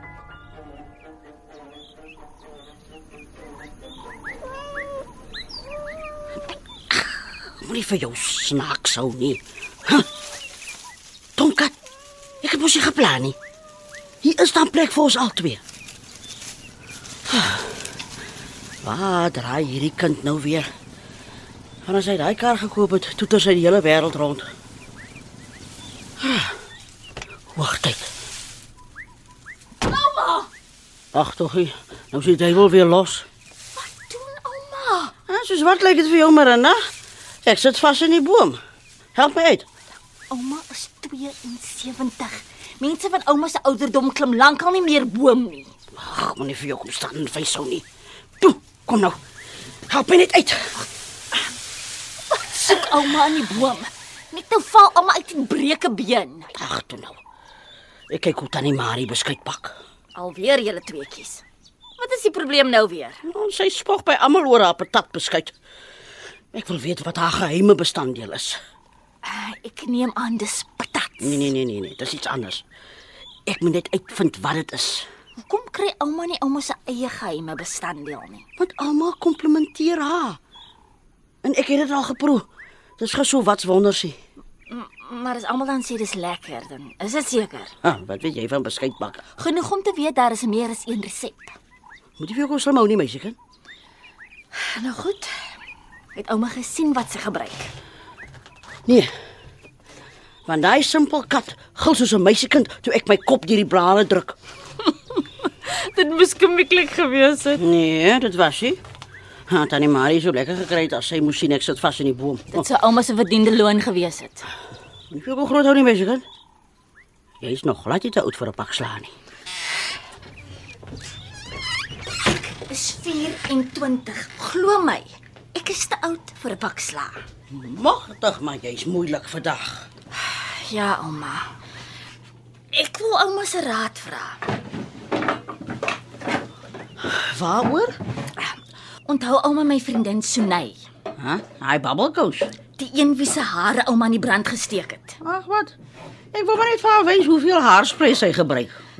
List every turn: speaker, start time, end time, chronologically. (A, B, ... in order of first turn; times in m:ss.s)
0:06.9-0:10.1 A
0:11.4-0:11.7 A
0:12.4-0:13.4 A
0:14.2-0:15.6 A
0:17.3-0:17.8 A
0:18.8-0:20.7 A
0:21.8-0:24.5 A
0:26.2-0:26.6 A
0:27.5-0:28.1 A
0:29.9-0:30.5 B
0:31.1-0:33.3 A
0:33.8-0:35.1 B
0:35.3-0:36.8 A
0:37.4-0:38.6 A
0:39.1-0:39.7 A
0:40.3-0:45.7 B
0:45.9-0:47.8 A
0:48.4-0:49.2 A
0:49.9-0:50.7 A
0:52.4-0:56.5 B
0:56.6-0:57.2 A
0:58.1-0:59.8 A
1:00.1-1:01.4 B
1:02.0-1:03.2 B
1:03.2-1:05.5 A
1:06.5-1:08.6 A
1:09.2-1:11.5 B
1:11.2-1:12.6 A
1:13.5-1:15.0 A
1:15.4-1:18.4 B
1:18.6-1:20.4 A
1:21.4-1:22.4 A
1:23.0-1:24.2 A
1:24.7-1:27.7 B
1:27.8-1:29.2 A
1:29.4-1:31.5 B
1:32.2-1:33.4 A
1:34.5-1:35.3 B
1:36.1-1:37.7 B
1:40.4-1:44.3 A
1:45.4-1:47.6 B
1:47.6-1:48.8 A
1:49.5-1:52.6 A
1:52.5-1:54.4 B
1:55.1-1:56.2 A
1:57.4-1:59.1 A
2:02.4-2:07.2 B
2:07.5-2:09.9 A
2:10.2-2:11.5 B
2:12.7-2:14.4 B
2:17.0-2:18.0 A
2:19.0-2:20.8 B
2:21.2-2:22.5 A
2:22.8-2:25.2 B
2:25.2-2:25.7 A
2:26.3-2:28.8 A